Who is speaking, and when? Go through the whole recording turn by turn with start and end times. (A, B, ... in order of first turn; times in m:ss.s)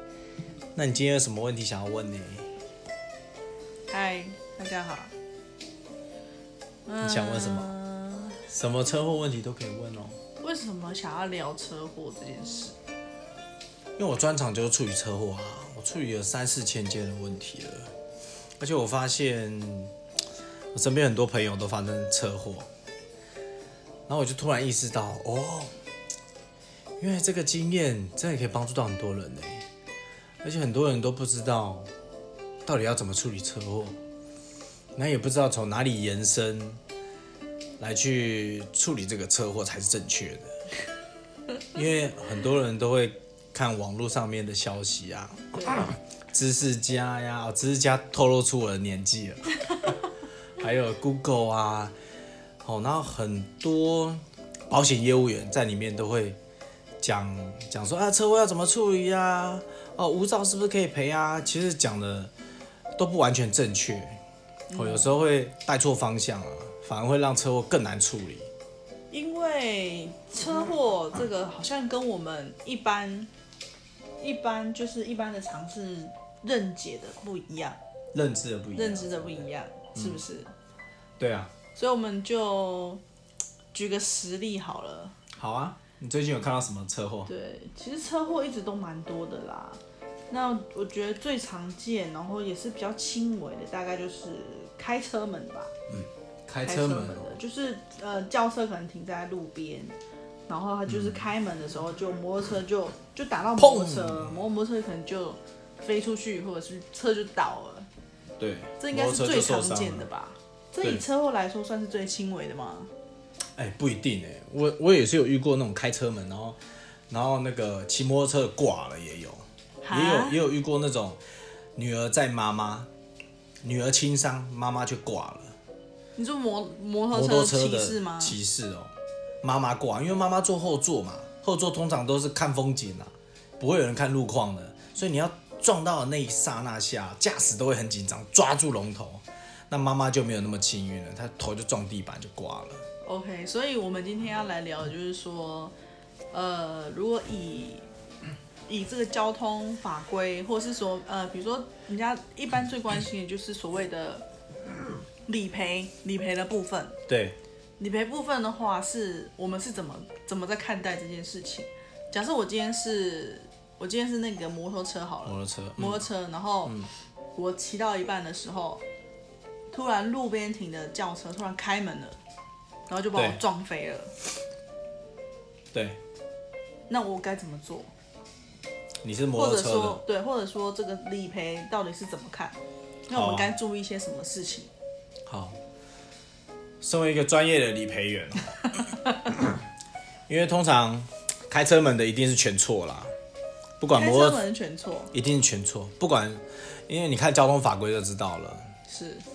0:00.8-0:02.5 A
0:03.9-0:05.1 B
0:06.9-0:08.4 B
0:07.0-0:07.7 A
0:08.5-0:10.2 A
0:10.4-0:12.8 B
0:14.0-0:17.9 A
0:18.6-0:19.9 A
0:20.7-0:22.7 A
0:24.1-0:25.7 A
0:27.0-0:29.6 A
0:30.4-0:31.9 A
0:32.7-0:34.0 A
0:35.0-0:36.8 A
0:37.8-0:40.5 A
0:41.7-0:49.5 A
0:45.6-0:45.9 B
0:50.6-0:51.9 A
0:52.6-0:56.4 A
0:57.0-1:02.3 A
1:03.0-1:04.2 A
1:04.7-1:05.1 B
1:04.7-1:08.5 A
1:09.1-1:13.3 B
1:14.2-1:17.8 B
1:18.1-1:20.2 A
1:18.8-1:20.5 B
1:21.2-1:21.5 A
1:21.8-1:23.0 B
1:23.7-1:25.2 B
1:25.4-1:27.3 A
1:27.3-1:35.7 B
1:35.9-1:37.4 A
1:36.6-1:40.0 B
1:40.5-1:47.9 B
1:40.9-1:41.2 A
1:43.6-1:44.4 A
1:48.4-1:50.1 A
1:48.8-1:52.9 B
1:53.6-1:56.6 A
1:57.1-2:01.2 A
1:59.8-2:00.4 B
2:01.8-2:02.9 A
2:03.6-2:05.5 A
2:06.2-2:08.4 B
2:07.1-2:22.8 A
2:23.0-2:25.7 B
2:26.3-2:27.9 B
2:28.7-2:34.3 B
2:35.3-2:37.0 B
2:37.1-2:37.4 A
2:37.8-2:46.8 B
2:45.2-2:46.0 A
2:47.4-2:48.8 B
2:49.7-2:52.2 B
2:52.9-2:54.1 B
2:53.2-2:53.4 A
2:55.7-2:56.0 A
2:56.9-2:57.9 B
2:59.0-3:00.0 A
2:59.4-3:04.7 B
3:03.1-3:03.5 A
3:05.3-3:05.6 A
3:06.8-3:08.6 A
3:10.3-3:13.1 A
3:13.8-3:14.4 A
3:13.9-3:15.1 B
3:15.1-3:18.7 A
3:18.9-3:19.2 B